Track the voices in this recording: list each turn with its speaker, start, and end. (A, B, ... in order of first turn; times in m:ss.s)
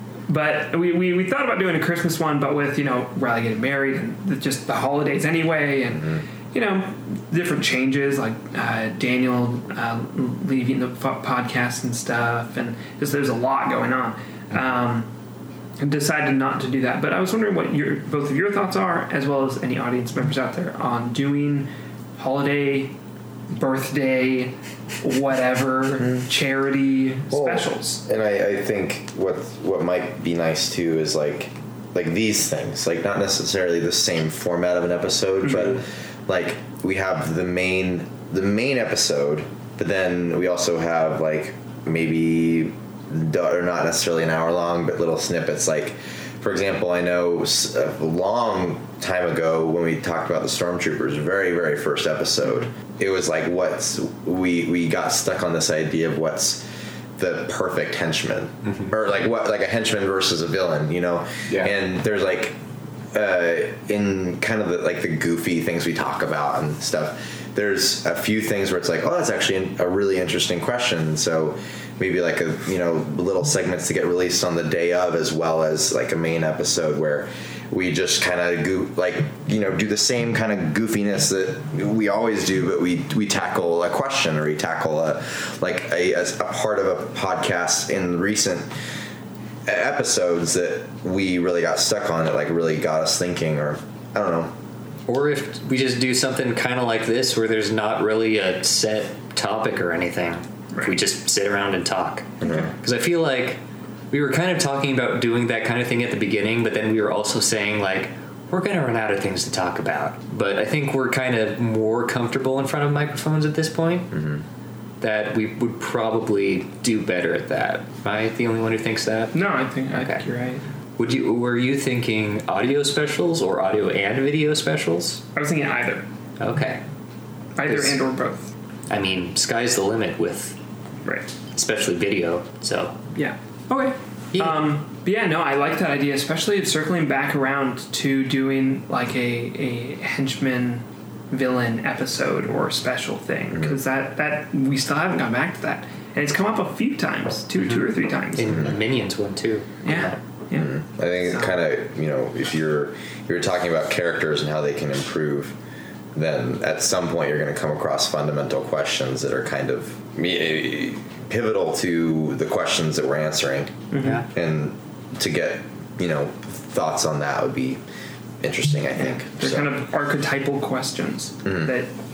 0:00.3-0:15.1 A
0:05.9-0:06.2 B
0:15.8-0:22.9 A
0:23.5-0:28.0 A
0:27.3-0:56.6 B
0:35.4-0:35.8 A
0:57.2-1:02.6 B
1:03.1-1:28.7 B
1:29.6-1:34.5 B
1:35.1-1:54.1 C
1:42.4-1:42.7 B
1:54.1-1:54.4 B
1:55.0-1:59.4 C
1:59.3-2:00.6 A
1:59.9-2:00.2 C
2:01.0-2:05.2 C
2:05.3-2:06.0 A
2:06.4-2:06.8 C
2:07.6-2:08.5 A
2:07.6-2:08.0 C
2:08.9-2:10.6 C
2:11.5-2:13.0 C
2:13.1-2:28.6 A
2:14.3-2:14.6 C
2:23.5-2:23.8 B
2:28.3-2:30.1 C
2:28.5-2:28.7 B
2:29.8-2:30.7 A
2:30.5-2:35.6 B
2:31.2-2:31.5 A
2:36.1-2:47.8 B
2:43.9-2:44.2 A
2:48.4-2:49.7 B
2:49.0-2:51.9 A
2:51.4-2:51.7 B